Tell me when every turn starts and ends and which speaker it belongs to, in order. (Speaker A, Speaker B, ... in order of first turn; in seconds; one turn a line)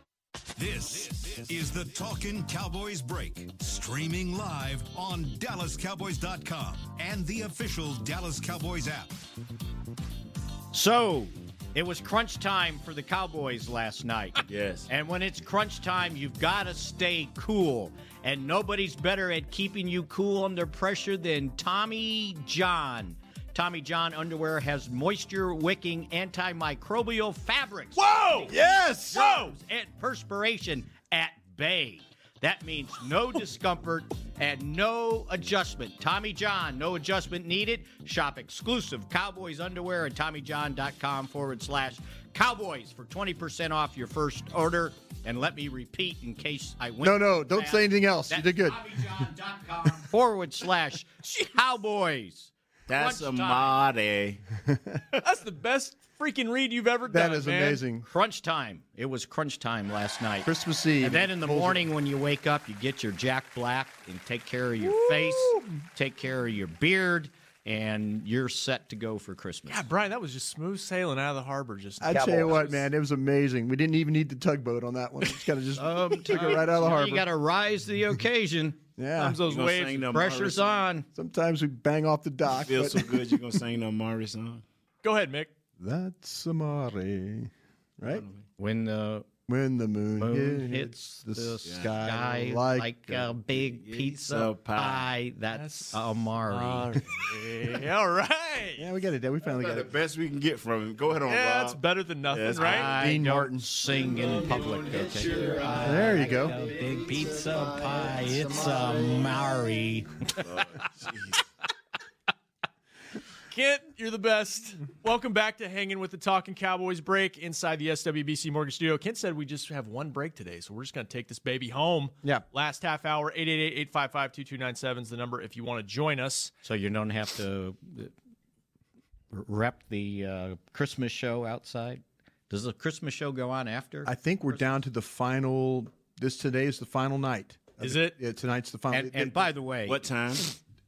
Speaker A: 0.6-9.2
Speaker B: 10.7-28.5
Speaker C: 14.5-14.9
Speaker D: 28.0-28.5
Speaker E: 28.5-29.4
Speaker B: 29.1-53.8
Speaker D: 29.1-29.4
Speaker E: 47.0-49.0
Speaker C: 52.9-54.4
Speaker E: 54.7-55.0
Speaker D: 55.2-57.8
Speaker E: 57.1-58.1
Speaker B: 58.0-60.5
Speaker E: 60.4-61.9
Speaker B: 61.0-69.8
Speaker E: 64.8-65.7
Speaker D: 69.7-72.8
Speaker E: 72.0-77.3
Speaker B: 75.8-78.8
Speaker E: 79.0-79.4
Speaker D: 79.2-80.2
Speaker C: 79.2-80.8
Speaker B: 80.1-81.1
Speaker E: 81.1-83.4
Speaker C: 82.6-84.6
Speaker D: 85.0-85.5
Speaker E: 85.8-88.2
Speaker C: 88.0-88.4
Speaker B: 88.6-89.3
Speaker E: 89.5-93.3
Speaker B: 90.2-96.9
Speaker C: 91.7-91.9
Speaker C: 93.5-95.1
Speaker D: 95.5-96.1
Speaker C: 96.5-97.1
Speaker D: 96.9-98.9
Speaker E: 98.8-99.9
Speaker C: 99.4-102.9
Speaker D: 101.2-102.9
Speaker B: 102.6-110.4
Speaker E: 102.9-103.7
Speaker E: 105.8-106.6
Speaker C: 110.4-111.4
Speaker D: 113.5-126.5
Speaker B: 126.6-128.1
Speaker B: 129.3-134.1
Speaker E: 134.0-139.5
Speaker D: 137.8-138.2
Speaker B: 138.9-140.0
Speaker C: 139.9-140.5